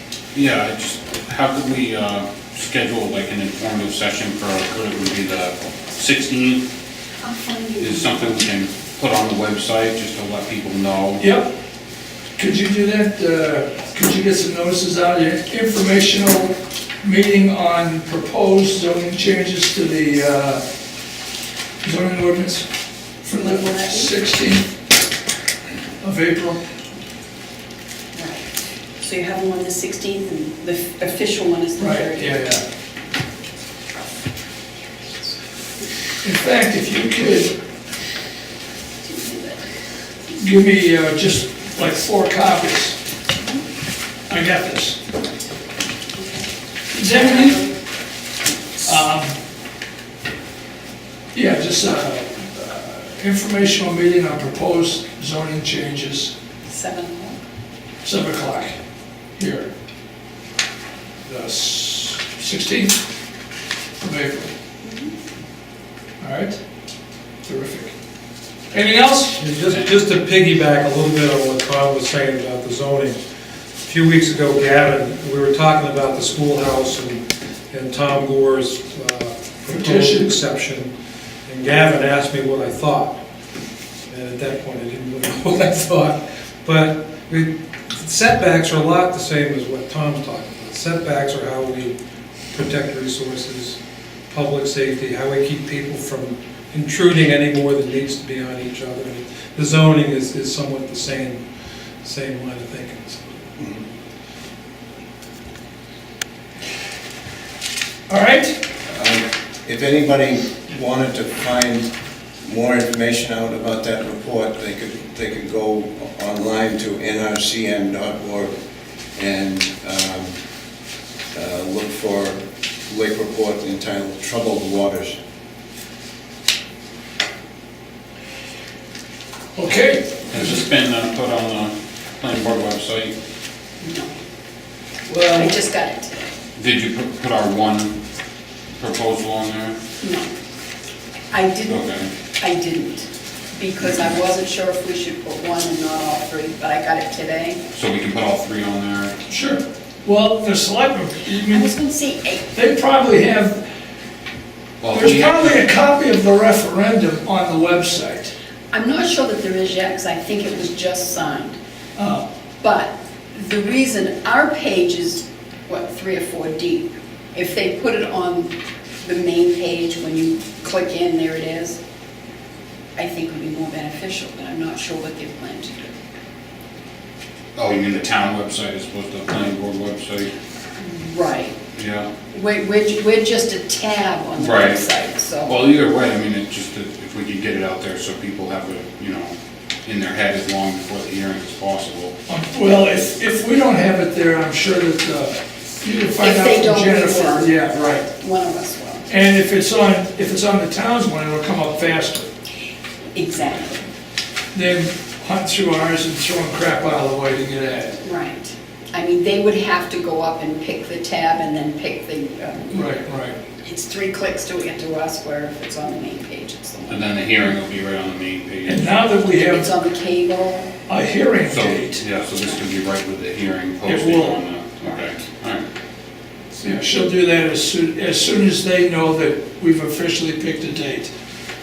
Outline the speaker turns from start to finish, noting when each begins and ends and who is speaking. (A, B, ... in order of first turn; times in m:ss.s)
0:00.3-0:06.6 A
0:07.2-0:08.3 B
0:07.8-0:11.2 A
0:11.2-0:11.5 C
0:12.4-0:20.6 C
0:21.8-0:22.7 C
0:23.2-0:24.7 C
0:23.4-0:24.1 B
0:26.0-0:26.6 C
0:28.1-0:32.5 B
0:31.8-0:32.6 C
0:36.2-0:37.6 C
0:39.0-0:39.6 B
0:40.4-0:43.0 C
0:44.3-0:45.0 C
0:46.2-0:46.5 B
0:46.9-0:47.7 C
0:47.1-0:47.7 B
0:48.8-0:49.3 C
0:51.3-0:56.3 C
0:56.6-0:57.4 B
0:58.0-0:58.8 C
0:59.4-0:59.7 C
1:01.2-1:03.0 C
1:04.0-1:04.5 C
1:04.8-1:05.1 B
1:06.2-1:06.6 C
1:07.4-1:07.9 C
1:08.7-1:09.4 C
1:09.4-1:13.2 D
1:13.8-1:20.9 D
1:19.7-1:20.4 C
1:21.5-1:23.2 D
1:24.1-1:32.0 D
1:32.5-1:33.8 D
1:34.3-1:41.4 D
1:42.0-1:43.4 D
1:48.1-1:48.6 C
1:48.9-1:51.8 E
1:52.4-1:58.5 E
1:59.2-2:00.4 E
2:01.3-2:05.2 E
2:09.6-2:10.5 C
2:10.3-2:13.1 A
2:13.8-2:14.1 B
2:15.1-2:15.6 C
2:15.3-2:16.3 B
2:16.6-2:18.0 A
2:18.8-2:19.8 A
2:20.0-2:20.3 B
2:21.3-2:27.6 B
2:21.7-2:22.1 A
2:27.7-2:29.1 A
2:29.3-2:31.7 C
2:31.4-2:32.5 B
2:32.5-2:33.6 C
2:34.8-2:35.6 A
2:34.9-2:38.3 C
2:38.7-2:41.6 B
2:42.0-2:42.2 C
2:42.6-2:51.8 B
2:53.0-2:56.0 B
2:57.6-3:00.3 A
3:00.8-3:01.6 B
3:01.8-3:02.1 A
3:02.3-3:05.7 B
3:04.4-3:04.8 A
3:05.4-3:09.3 A
3:09.8-3:12.2 A
3:12.3-3:18.1 C
3:16.2-3:19.1 B
3:19.1-3:22.3 C
3:23.1-3:23.9 B
3:24.5-3:28.0 C
3:28.0-3:37.1 B
3:32.7-3:33.4 C
3:36.9-3:38.9 A
3:38.7-3:39.7 C
3:39.4-3:40.8 B
3:40.9-3:42.0 C
3:41.5-3:45.6 A
3:43.8-3:44.4 C
3:46.6-3:51.1 C